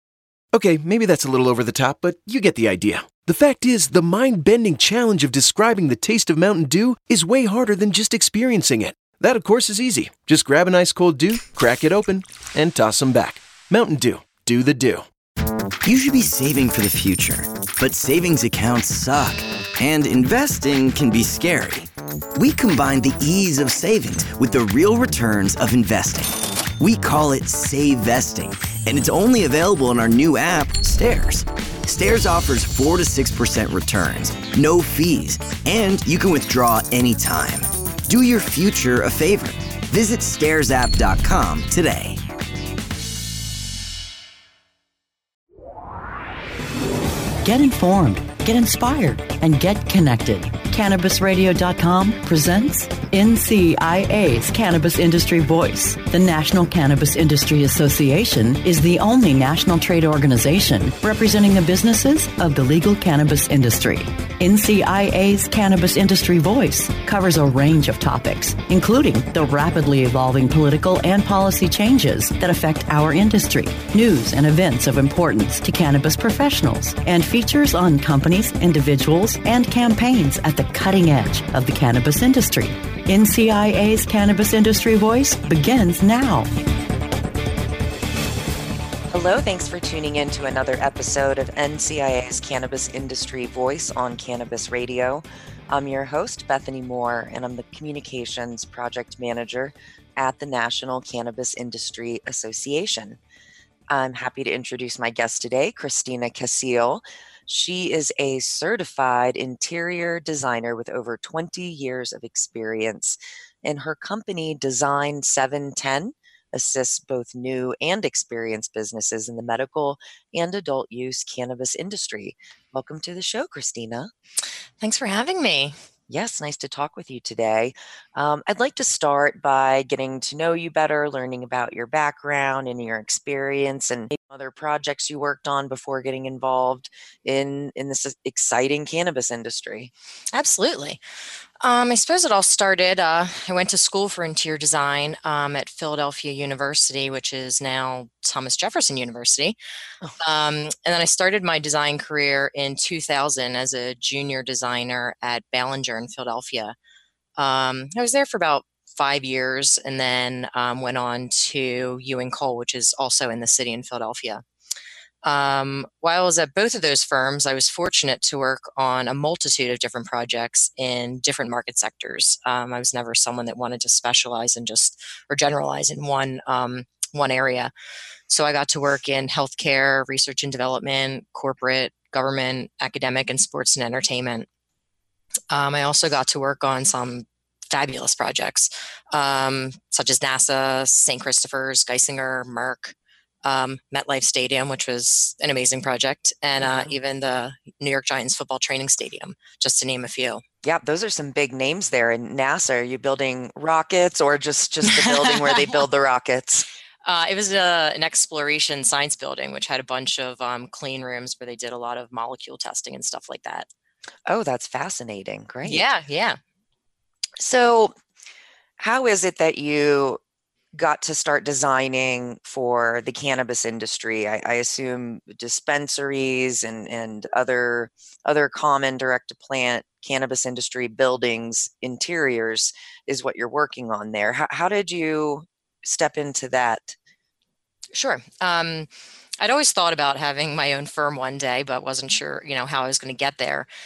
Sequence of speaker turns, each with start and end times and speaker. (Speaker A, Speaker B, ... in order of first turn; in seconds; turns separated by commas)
Speaker A: 0.5-15.1, Speaker B: 15.8-42.2, Speaker C: 47.4-86.5, Speaker D: 89.1-103.2, Speaker D: 103.9-124.1, Speaker E: 124.8-125.8, Speaker D: 126.1-139.9, Speaker E: 140.3-141.0, Speaker E: 141.6-149.6, Speaker E: 150.2-156.8, Speaker E: 157.4-164.4, Speaker E: 165.2-177.7, Speaker E: 178.3-184.5, Speaker E: 185.5-200.4, Speaker D: 196.6-196.9, Speaker D: 200.6-206.7, Speaker E: 204.9-205.6, Speaker E: 207.1-213.7, Speaker D: 214.3-215.9, Speaker E: 215.6-216.4, Speaker D: 217.4-217.9, Speaker D: 218.8-220.2, Speaker D: 220.7-237.0, Speaker E: 237.9-238.9, Speaker E: 239.4-243.7